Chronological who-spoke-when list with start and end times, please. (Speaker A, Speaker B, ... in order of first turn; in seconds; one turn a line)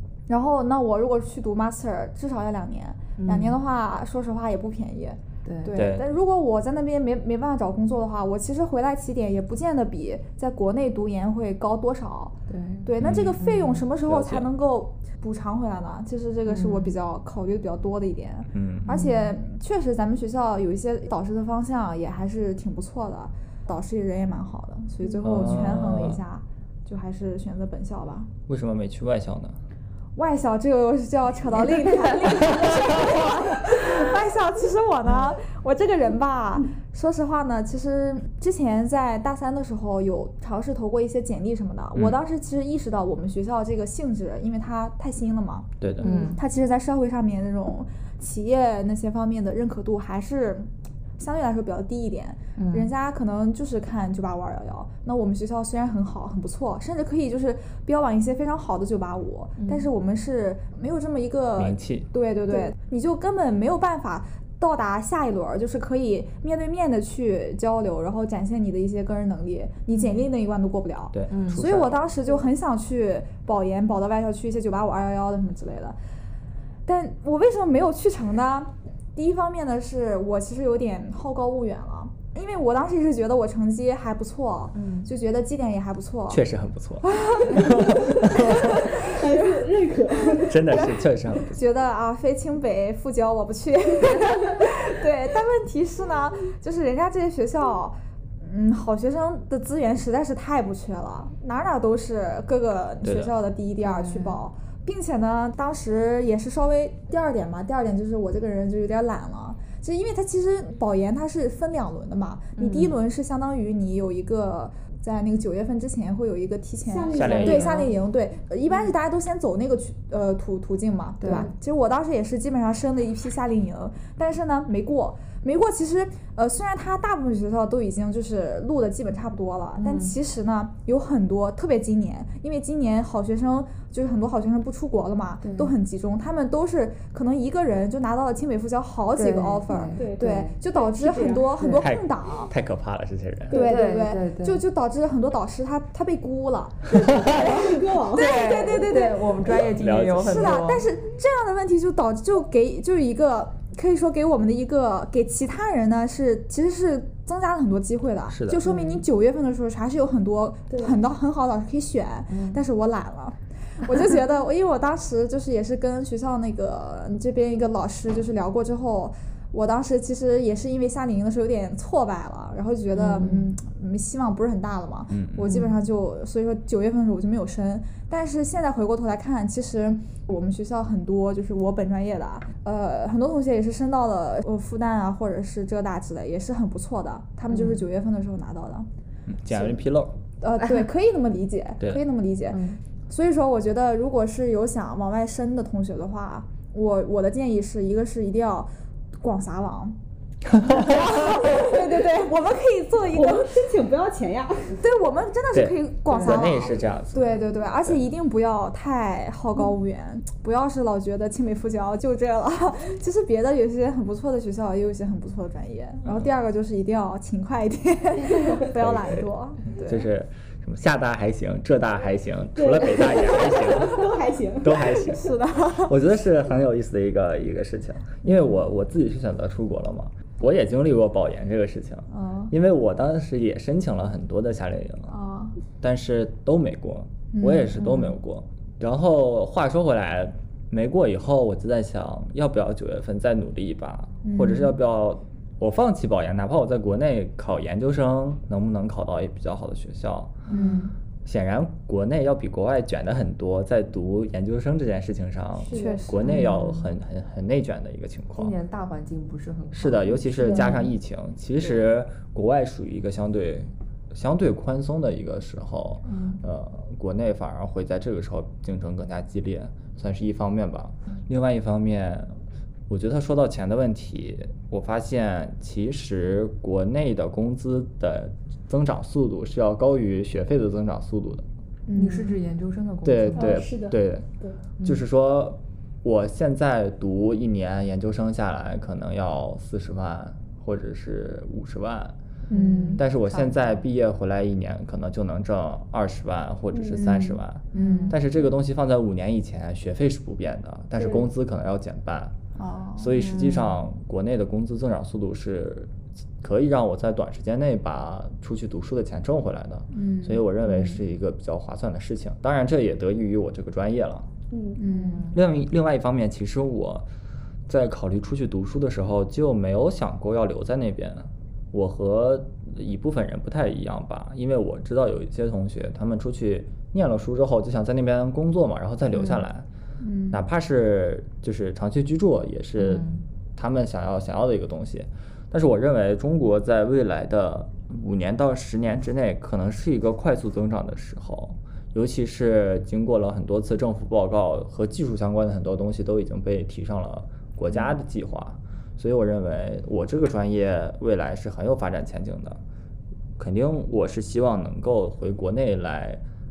Speaker A: 0.3-28.3
Speaker B: 3.2-3.6
Speaker B: 5.4-5.8
Speaker C: 5.7-6.0
Speaker B: 12.5-13.8
Speaker C: 13.0-13.4
Speaker C: 14.0-14.5
Speaker B: 16.5-16.9
Speaker C: 18.5-19.0
Speaker B: 18.9-19.3
Speaker C: 25.2-26.2
Speaker C: 28.5-29.6
Speaker A: 30.1-76.0
Speaker C: 45.8-46.1
Speaker B: 46.0-46.4
Speaker B: 52.6-52.9
Speaker B: 59.6-59.9
Speaker C: 61.6-62.1
Speaker B: 69.9-70.2
Speaker C: 71.1-72.0
Speaker B: 71.3-71.6
Speaker A: 76.8-86.4
Speaker B: 84.7-85.1
Speaker C: 86.3-89.0
Speaker A: 87.0-89.1
Speaker D: 88.3-90.8
Speaker C: 90.4-91.6
Speaker A: 91.5-142.5
Speaker C: 103.0-103.3
Speaker B: 103.8-104.4
Speaker B: 112.6-113.0
Speaker D: 116.8-118.0
Speaker C: 117.1-117.7
Speaker B: 121.2-121.5
Speaker B: 129.8-130.1
Speaker B: 139.2-140.1
Speaker D: 139.9-141.6
Speaker B: 141.6-141.9
Speaker C: 141.8-143.6
Speaker D: 143.5-143.8
Speaker A: 143.5-149.2
Speaker B: 143.5-144.6
Speaker C: 146.9-147.4
Speaker D: 147.2-149.1
Speaker B: 148.1-150.8
Speaker C: 149.8-150.6
Speaker A: 150.2-188.9
Speaker C: 158.3-158.6
Speaker B: 158.6-159.0
Speaker B: 162.3-162.6
Speaker B: 172.9-173.5
Speaker C: 175.1-175.6
Speaker B: 175.5-175.8
Speaker B: 187.5-187.8
Speaker C: 189.3-190.2
Speaker A: 190.4-199.9
Speaker B: 190.6-190.9
Speaker B: 192.5-192.8
Speaker A: 200.6-203.5
Speaker D: 203.1-204.8
Speaker A: 204.8-220.0
Speaker C: 205.5-208.0
Speaker C: 218.7-224.1
Speaker D: 222.6-225.1
Speaker C: 224.6-235.1
Speaker A: 224.8-225.9
Speaker A: 232.1-232.5
Speaker A: 235.1-235.6
Speaker C: 235.8-250.4
Speaker A: 237.3-238.2
Speaker A: 244.2-244.7
Speaker B: 250.5-250.9
Speaker A: 250.5-250.9
Speaker C: 251.2-258.5
Speaker D: 255.6-256.1
Speaker A: 255.7-256.7
Speaker B: 256.2-256.7
Speaker B: 258.4-260.8
Speaker C: 259.7-272.3
Speaker A: 260.4-260.8
Speaker B: 266.0-266.4
Speaker C: 272.9-281.4
Speaker A: 281.9-282.3
Speaker B: 281.9-283.7
Speaker C: 283.0-284.3
Speaker D: 283.4-284.6
Speaker C: 284.8-292.1
Speaker A: 292.5-293.0
Speaker B: 292.5-293.0
Speaker C: 292.9-302.3
Speaker D: 296.7-297.1
Speaker A: 297.0-298.1
Speaker B: 297.7-298.2
Speaker D: 301.0-301.3
Speaker A: 302.6-303.1
Speaker C: 303.0-314.3
Speaker B: 303.1-303.8
Speaker A: 309.9-310.4
Speaker B: 310.7-311.0
Speaker D: 314.5-314.8
Speaker A: 314.8-315.3
Speaker B: 314.8-315.4
Speaker C: 315.3-317.0
Speaker C: 317.7-329.6
Speaker B: 329.1-329.4
Speaker A: 330.0-330.4
Speaker C: 330.3-333.0
Speaker B: 332.8-333.2
Speaker C: 333.6-352.6
Speaker C: 353.4-356.2